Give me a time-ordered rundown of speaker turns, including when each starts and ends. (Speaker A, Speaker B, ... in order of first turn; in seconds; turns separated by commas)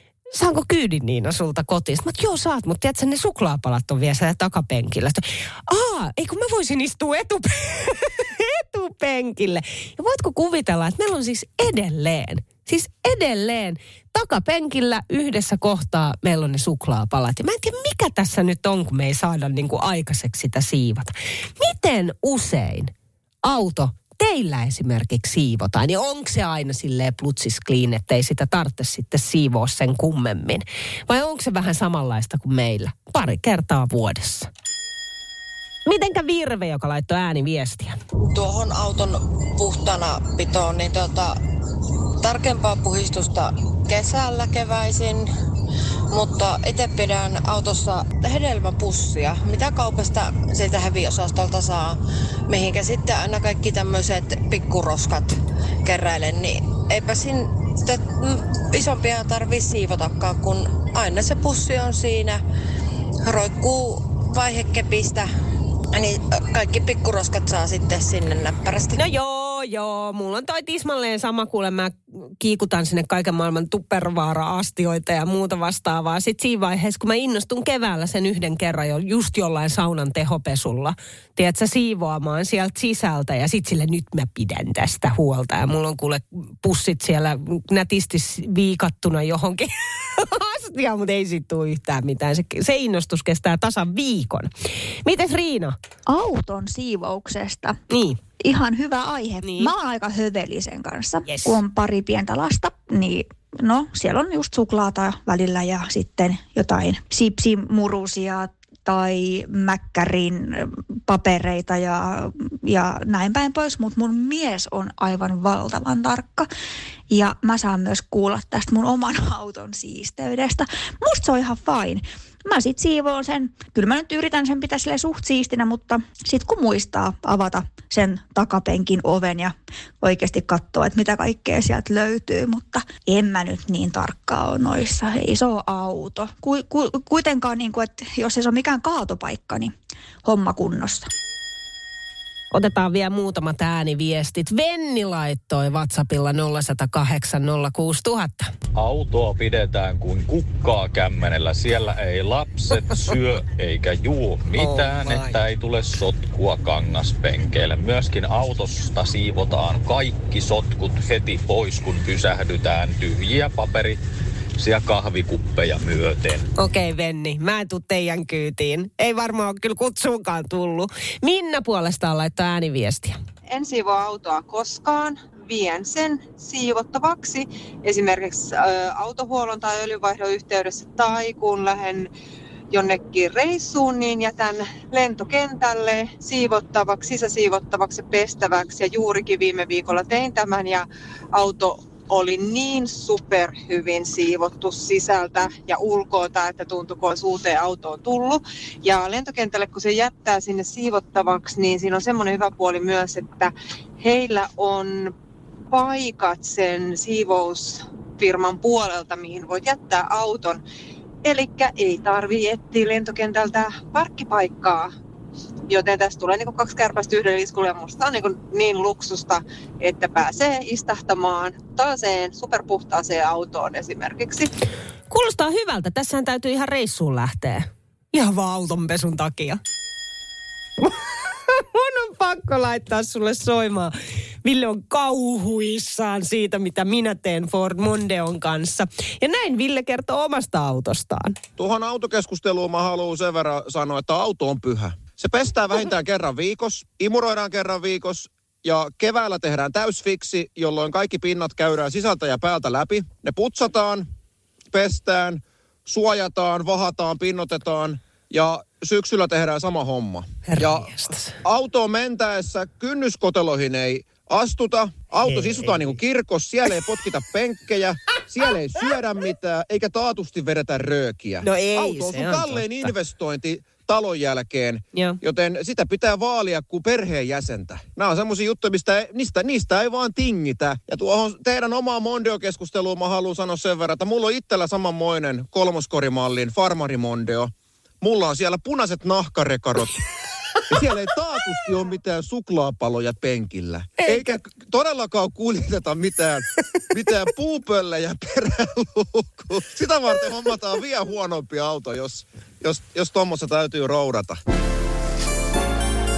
Speaker A: 0.3-22.9, Speaker A: 23.4-34.5, Speaker A: 35.9-37.9, Speaker B: 38.2-41.4, Speaker B: 42.2-45.3, Speaker B: 46.1-62.4, Speaker B: 63.2-65.3, Speaker B: 65.9-69.0, Speaker A: 69.0-94.5, Speaker A: 95.0-95.8, Speaker C: 96.1-97.8, Speaker A: 97.9-98.2, Speaker C: 98.4-116.5, Speaker A: 99.4-99.7, Speaker A: 101.2-101.6, Speaker C: 117.1-141.1, Speaker A: 142.5-148.5, Speaker D: 148.7-164.0, Speaker A: 154.6-155.3, Speaker D: 164.6-166.4, Speaker A: 166.6-173.2, Speaker E: 173.5-182.1, Speaker E: 182.7-205.1, Speaker E: 205.7-210.6, Speaker E: 211.2-214.9, Speaker E: 215.7-224.5, Speaker A: 225.1-229.6, Speaker A: 230.8-241.4, Speaker F: 241.6-254.1, Speaker F: 254.7-290.0, Speaker A: 260.5-261.4, Speaker A: 265.3-265.9, Speaker A: 271.4-272.9, Speaker F: 290.7-304.4